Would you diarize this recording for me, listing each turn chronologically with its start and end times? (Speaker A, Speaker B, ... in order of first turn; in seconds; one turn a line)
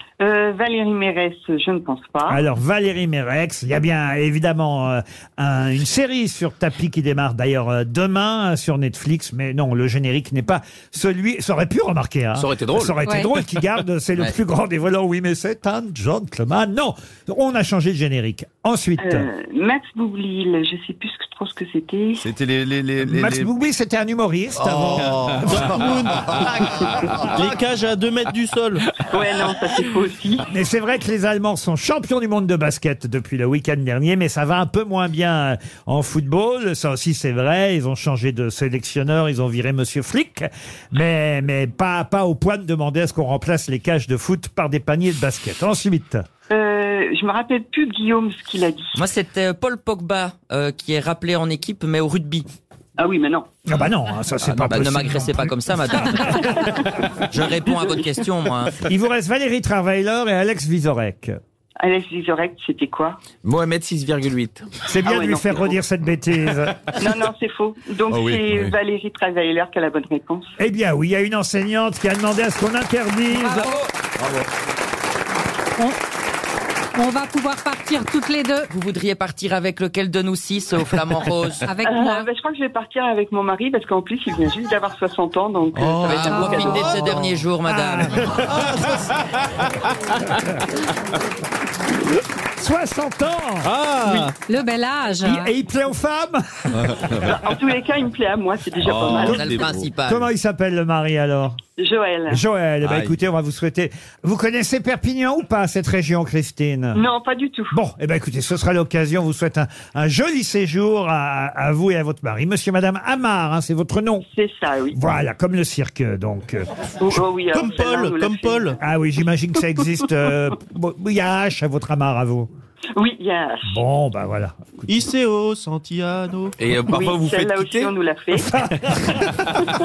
Speaker A: 0.2-2.4
Speaker B: 2.3-19.3
Speaker C: 12.4-12.9
Speaker A: 19.0-22.2
Speaker D: 22.3-23.5
Speaker B: 23.0-25.8
Speaker D: 24.6-25.4
Speaker E: 25.0-25.4
Speaker F: 25.4-28.9
Speaker A: 29.0-30.4
Speaker B: 30.5-46.2
Speaker A: 46.5-49.0
Speaker E: 49.0-52.5
Speaker A: 53.0-53.5
Speaker B: 53.7-57.0
Speaker C: 54.5-54.9
Speaker E: 54.8-56.7
Speaker E: 57.3-58.8
Speaker B: 58.8-61.4
Speaker A: 61.8-63.2
Speaker C: 63.4-64.7
Speaker B: 64.8-66.9
Speaker A: 65.0-65.8
Speaker A: 67.0-70.5
Speaker C: 68.1-68.5
Speaker B: 70.6-73.7
Speaker G: 73.3-73.8
Speaker G: 77.0-78.7
Speaker E: 78.7-81.7
Speaker G: 81.7-82.3
Speaker A: 81.9-87.1
Speaker E: 86.1-88.4
Speaker G: 86.2-87.0
Speaker B: 87.7-88.6
Speaker F: 88.5-89.1
Speaker B: 92.6-93.7
Speaker C: 93.7-94.1
Speaker F: 93.9-94.3
Speaker G: 94.2-95.5
Speaker B: 95.2-97.0
Speaker A: 97.2-99.5
Speaker C: 98.8-99.9
Speaker B: 99.2-101.6
Speaker E: 99.4-100.3
Speaker A: 101.8-102.4
Speaker B: 102.3-107.1
Speaker C: 102.8-103.2
Speaker A: 107.0-107.8
Speaker B: 107.7-114.3
Speaker A: 114.3-115.0
Speaker B: 114.9-116.7
Speaker A: 117.0-118.8
Speaker F: 117.5-118.8
Speaker B: 118.8-122.5
Speaker A: 123.0-123.8
Speaker B: 123.7-124.9
Speaker F: 124.9-126.6
Speaker C: 126.6-127.9
Speaker A: 126.9-128.5
Speaker B: 128.5-129.3